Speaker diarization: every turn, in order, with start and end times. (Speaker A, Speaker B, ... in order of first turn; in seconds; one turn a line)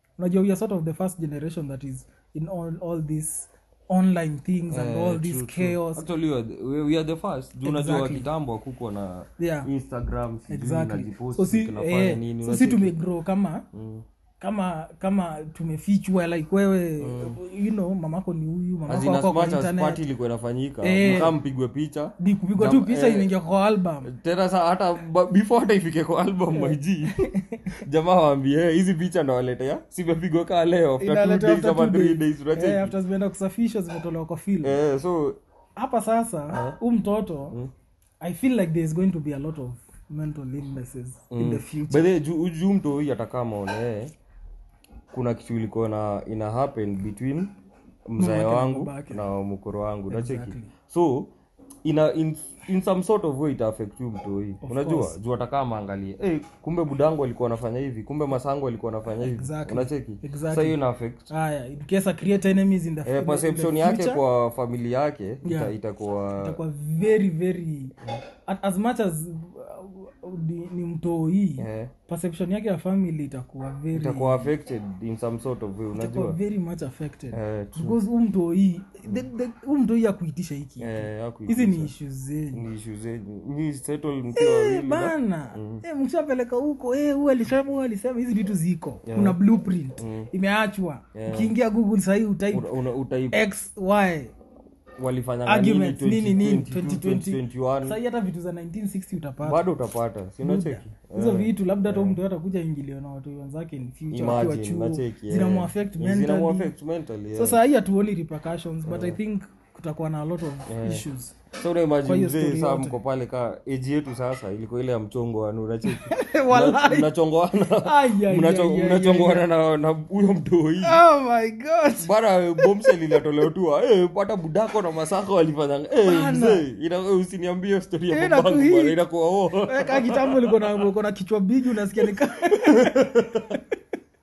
Speaker A: 0.2-6.0
Speaker B: 4.7-12.9
Speaker A: 7.6-8.3
Speaker A: 9.4-9.7
Speaker A: 10.5-13.7
Speaker B: 13.7-14.0
Speaker A: 14.4-20.0
Speaker B: 17.0-17.4
Speaker B: 18.9-23.3
Speaker A: 20.8-21.4
Speaker A: 22.2-24.1
Speaker B: 24.1-32.9
Speaker A: 26.5-27.8
Speaker A: 31.0-34.8
Speaker B: 34.6-35.4
Speaker A: 35.8-37.6
Speaker B: 36.5-36.8
Speaker A: 38.2-42.1
Speaker B: 41.3-44.1
Speaker B: 45.1-47.5
Speaker B: 48.1-51.3
Speaker A: 48.2-49.2
Speaker A: 50.1-50.7
Speaker B: 51.8-61.3
Speaker A: 54.6-55.1
Speaker A: 59.1-60.8
Speaker A: 61.3-64.2
Speaker B: 63.0-66.6
Speaker A: 65.4-65.7
Speaker A: 66.4-67.9
Speaker A: 68.5-74.5
Speaker B: 71.6-71.9
Speaker B: 73.9-76.4
Speaker A: 75.9-82.6
Speaker B: 77.3-78.0
Speaker B: 80.8-81.9
Speaker B: 82.5-85.8
Speaker A: 84.3-92.7
Speaker B: 89.0-89.4
Speaker B: 90.0-90.3
Speaker B: 91.1-91.5
Speaker B: 92.5-93.4
Speaker A: 93.3-94.3
Speaker B: 95.0-98.0
Speaker A: 95.5-99.6
Speaker B: 99.4-102.2
Speaker A: 100.4-106.7
Speaker B: 104.1-107.6
Speaker A: 107.3-111.4
Speaker B: 108.8-109.2
Speaker B: 110.7-121.0
Speaker A: 112.0-113.0
Speaker A: 115.9-117.1
Speaker A: 117.7-119.5
Speaker A: 120.8-123.2
Speaker B: 122.0-130.8
Speaker A: 126.0-126.6
Speaker A: 128.1-129.0
Speaker A: 129.6-133.7
Speaker B: 132.5-133.6